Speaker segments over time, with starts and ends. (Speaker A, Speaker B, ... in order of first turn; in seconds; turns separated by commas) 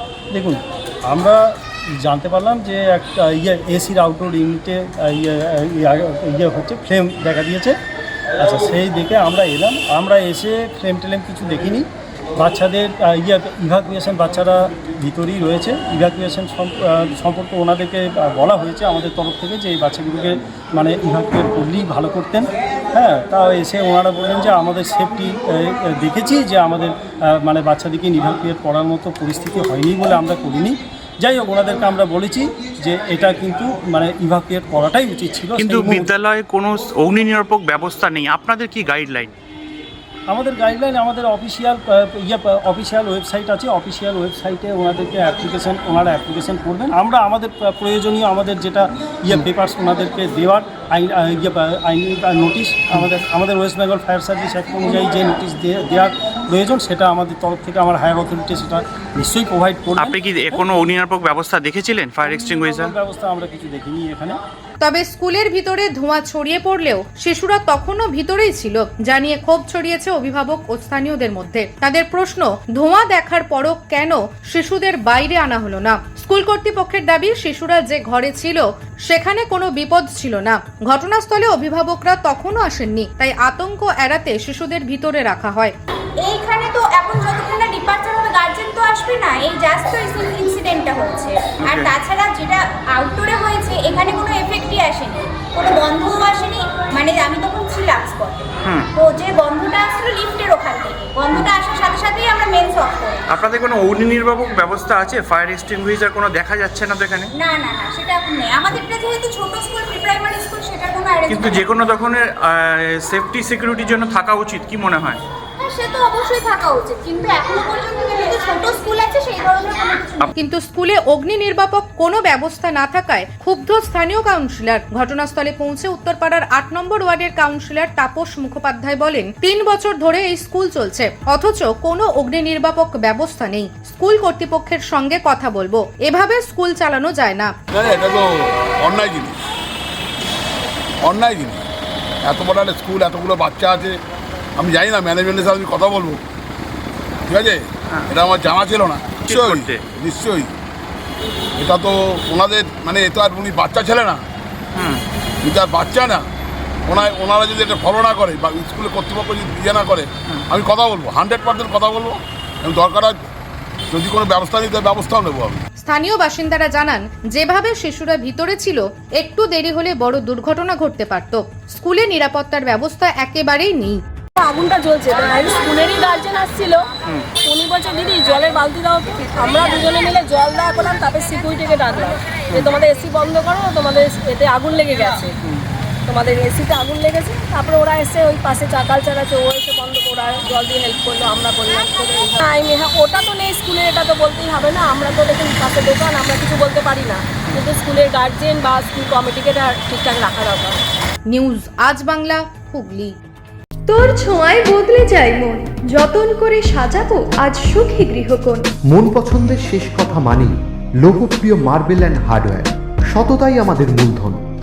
Speaker A: 0.3-1.4, Speaker A: 2.0-7.8, Speaker A: 8.3-36.0, Speaker B: 35.5-39.3, Speaker A: 40.3-60.1, Speaker B: 59.9-62.9, Speaker A: 62.2-64.4, Speaker C: 64.8-85.7, Speaker D: 86.2-103.2, Speaker B: 91.6-91.9, Speaker B: 98.6-98.9, Speaker B: 103.3-107.3, Speaker D: 107.3-111.6, Speaker B: 111.3-115.2, Speaker D: 115.6-120.2, Speaker C: 120.3-137.5, Speaker E: 137.7-139.4, Speaker E: 141.0-141.6, Speaker E: 142.2-144.0, Speaker E: 144.6-146.2, Speaker E: 147.3-150.5, Speaker B: 149.2-149.8, Speaker E: 151.6-154.2, Speaker B: 154.7-155.0, Speaker E: 155.4-156.2, Speaker E: 156.9-163.3, Speaker E: 163.9-165.6, Speaker C: 165.8-174.0, Speaker F: 174.4-185.4, Speaker F: 186.1-200.8, Speaker C: 201.3-203.1, Speaker G: 203.9-208.7, Speaker H: 208.9-214.4